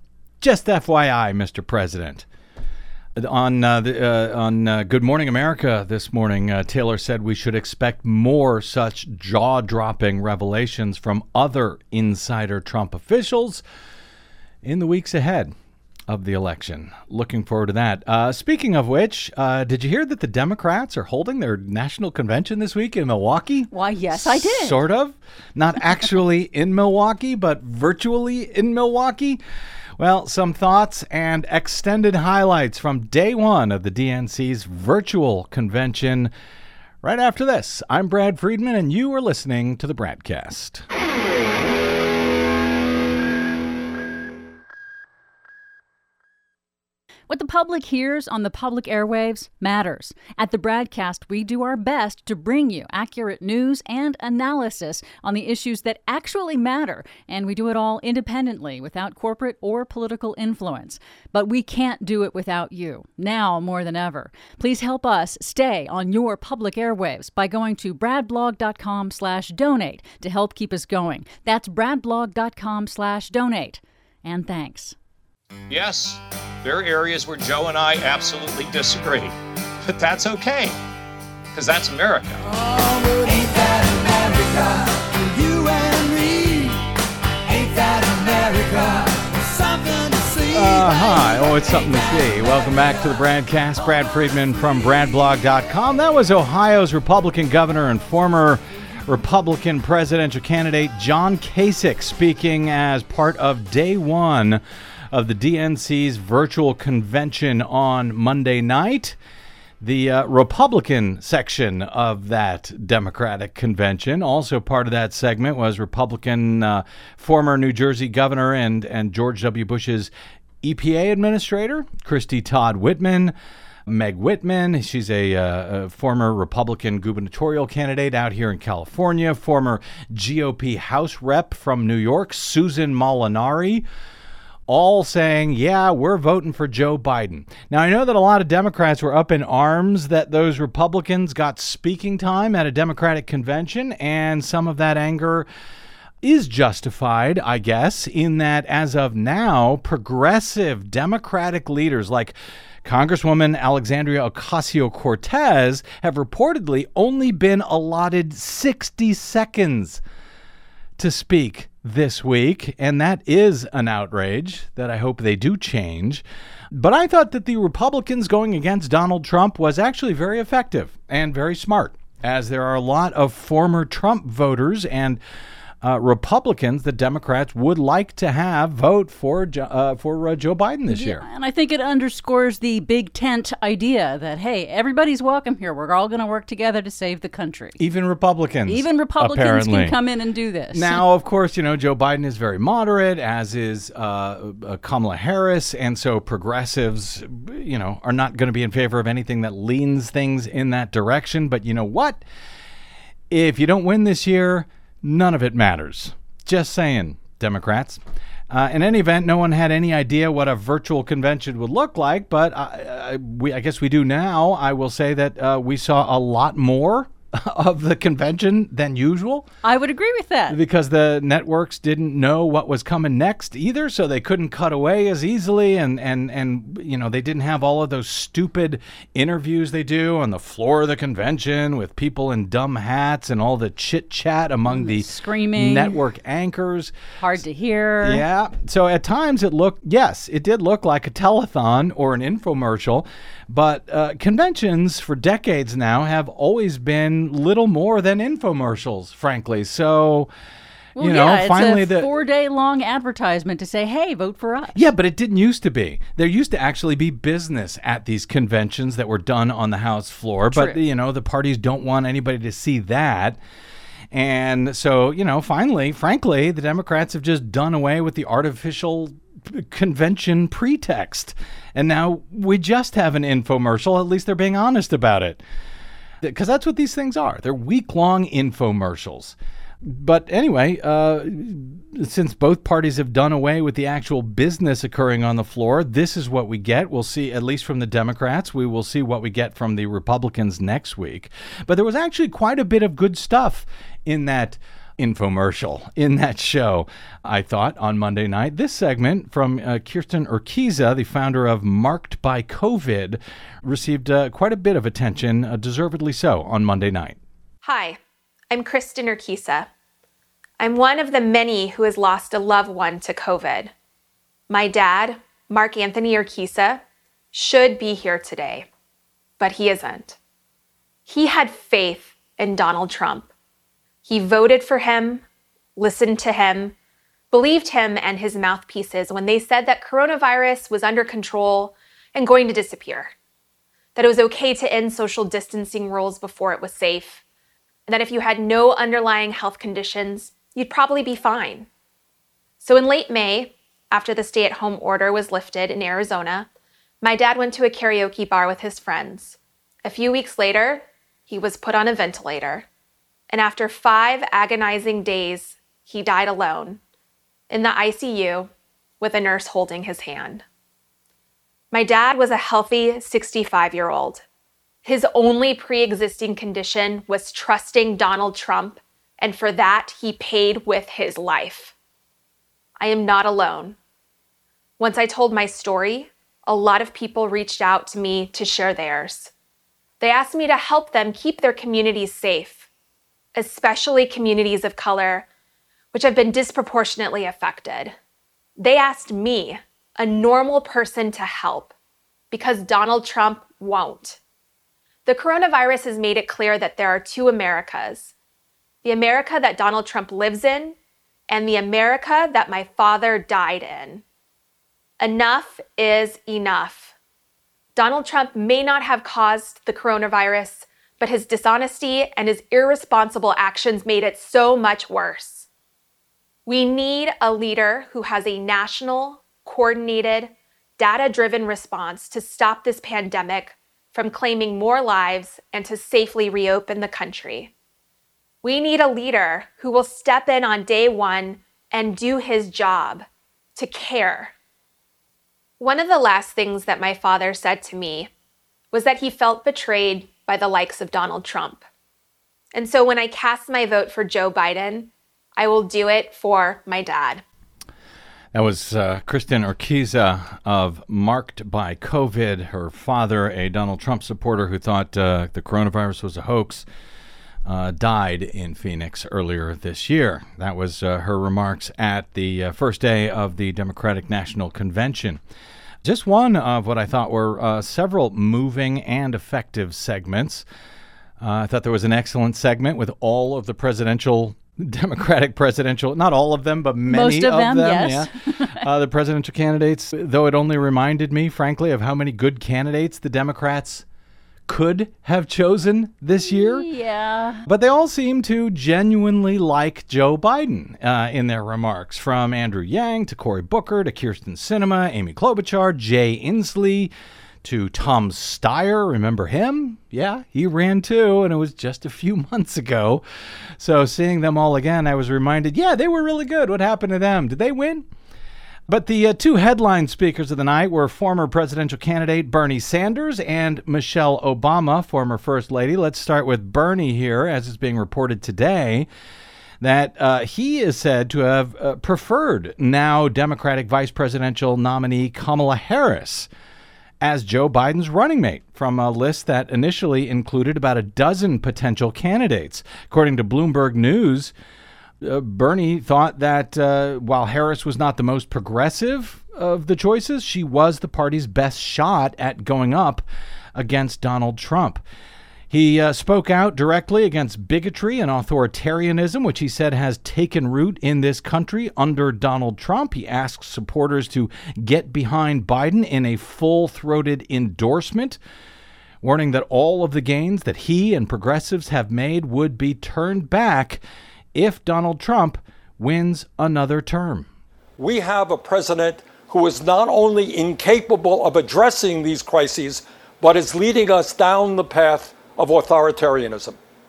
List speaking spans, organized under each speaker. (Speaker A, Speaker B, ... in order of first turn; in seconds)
Speaker A: 0.4-2.2, 3.1-13.6, 14.6-15.5, 16.1-29.4, 30.0-36.3, 37.0-40.9, 90.5-109.2, 109.8-123.3, 123.9-133.8, 134.7-145.5, 146.2-160.0, 161.0-175.2, 175.8-181.2, 187.8-189.9, 190.7-202.2, 203.3-219.5, 220.5-236.9, 238.0-250.3, 251.0-252.1, 254.7-263.4, 264.1-275.4, 276.2-307.2, 448.3-456.6, 457.4-465.2, 465.8-470.4, 471.2-483.8, 484.5-486.7, 487.4-496.9, 497.4-503.0, 503.6-507.9, 508.7-518.9, 519.6-526.3, 527.0-534.3, 535.0-543.0, 543.5-544.8, 545.5-558.2, 559.0-563.8, 564.3-567.3
Speaker B: 23.7-24.8, 47.3-74.9, 180.9-187.8, 188.7-191.0, 219.6-220.6, 234.7-236.0, 237.2-238.2, 250.9-254.8, 260.5-260.8, 476.9-478.6, 486.2-487.4
Speaker C: 75.7-80.8, 81.5-82.4
Speaker D: 83.2-84.8, 85.4-86.6, 88.0-88.9
Speaker E: 307.6-308.0, 308.5-309.7, 310.6-313.7, 314.5-318.7, 319.4-320.2, 321.1-323.3, 324.0-325.2, 325.8-326.8, 327.3-333.1, 333.9-337.2, 337.9-341.7, 342.6-346.5, 347.0-352.7, 353.3-356.8, 357.5-360.4, 361.7-364.2, 364.8-371.7, 372.8-373.8, 374.8-379.3, 380.0-382.7, 383.4-385.3, 385.9-387.9, 388.6-391.7, 392.3-394.2, 395.1-398.1, 398.8-400.8, 401.3-404.0, 405.0-406.9, 407.7-415.5, 416.4-427.5, 428.4-434.3, 435.6-438.1, 438.7-441.6, 442.5-447.2
Speaker F: 567.8-576.6